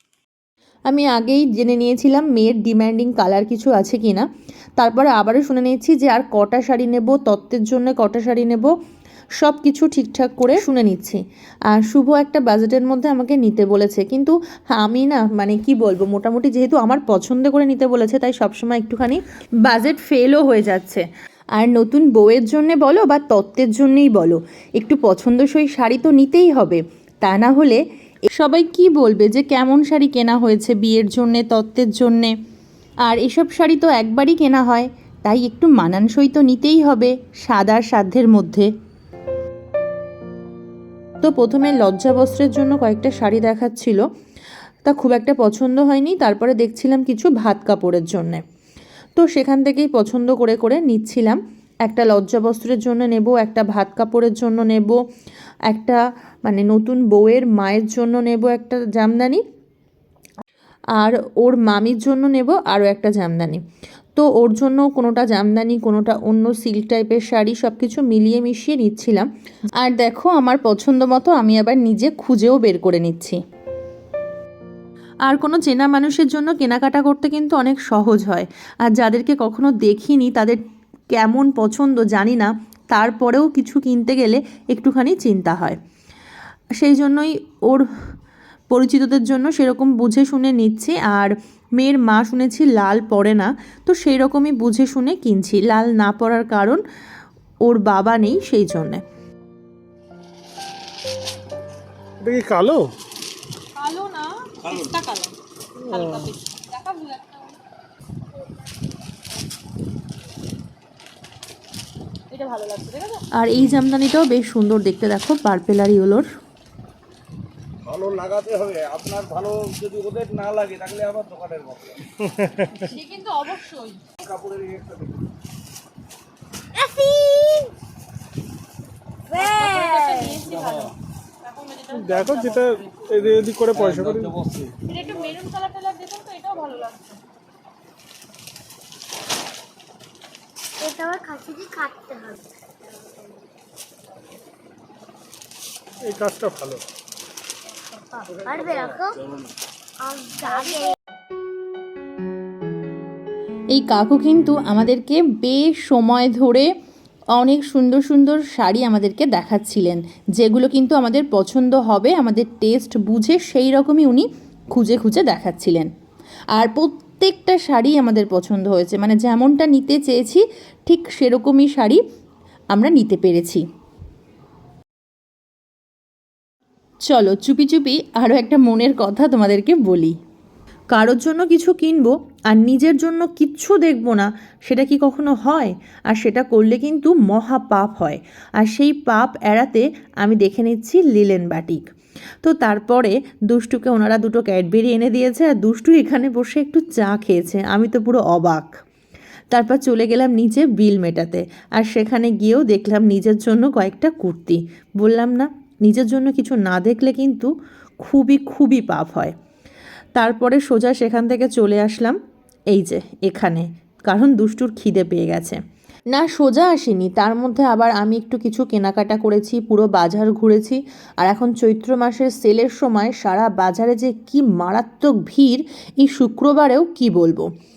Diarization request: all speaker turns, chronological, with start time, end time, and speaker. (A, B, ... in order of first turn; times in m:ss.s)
0:00.9-0:08.7 A
0:09.4-0:11.2 A
0:11.7-0:21.0 A
0:21.6-0:32.4 A
0:33.0-0:38.7 A
0:41.2-0:44.0 A
0:44.8-0:48.4 A
0:49.2-0:55.0 A
0:55.7-0:59.4 A
1:01.0-1:03.6 A
1:04.2-1:09.3 A
1:09.8-1:13.4 A
1:15.3-1:20.6 A
1:21.1-1:25.8 A
1:26.8-1:27.9 A
1:28.7-1:36.8 A
1:37.6-1:39.0 A
1:42.2-1:42.9 B
1:43.8-1:47.6 C
1:44.6-1:44.9 D
1:45.9-1:46.3 B
1:52.3-1:53.2 C
1:53.3-1:56.3 A
1:57.8-2:02.1 D
2:02.8-2:04.1 C
2:04.2-2:05.2 D
2:06.8-2:07.7 E
2:09.3-2:13.1 C
2:09.3-2:10.4 E
2:10.5-2:11.0 D
2:11.9-2:14.3 B
2:13.7-2:14.8 D
2:14.8-2:17.2 C
2:20.8-2:23.5 E
2:26.0-2:26.8 B
2:27.9-2:29.2 E
2:30.0-2:31.0 E
2:33.7-2:36.7 A
2:37.3-2:45.9 A
2:46.5-2:52.0 A
2:52.7-2:53.6 A
2:57.1-3:00.2 A
3:00.9-3:11.8 A
3:12.4-3:18.8 A
3:19.5-3:27.5 A
3:28.0-3:29.4 A
3:30.2-3:32.2 A
3:32.7-3:35.6 A
3:36.1-3:47.5 A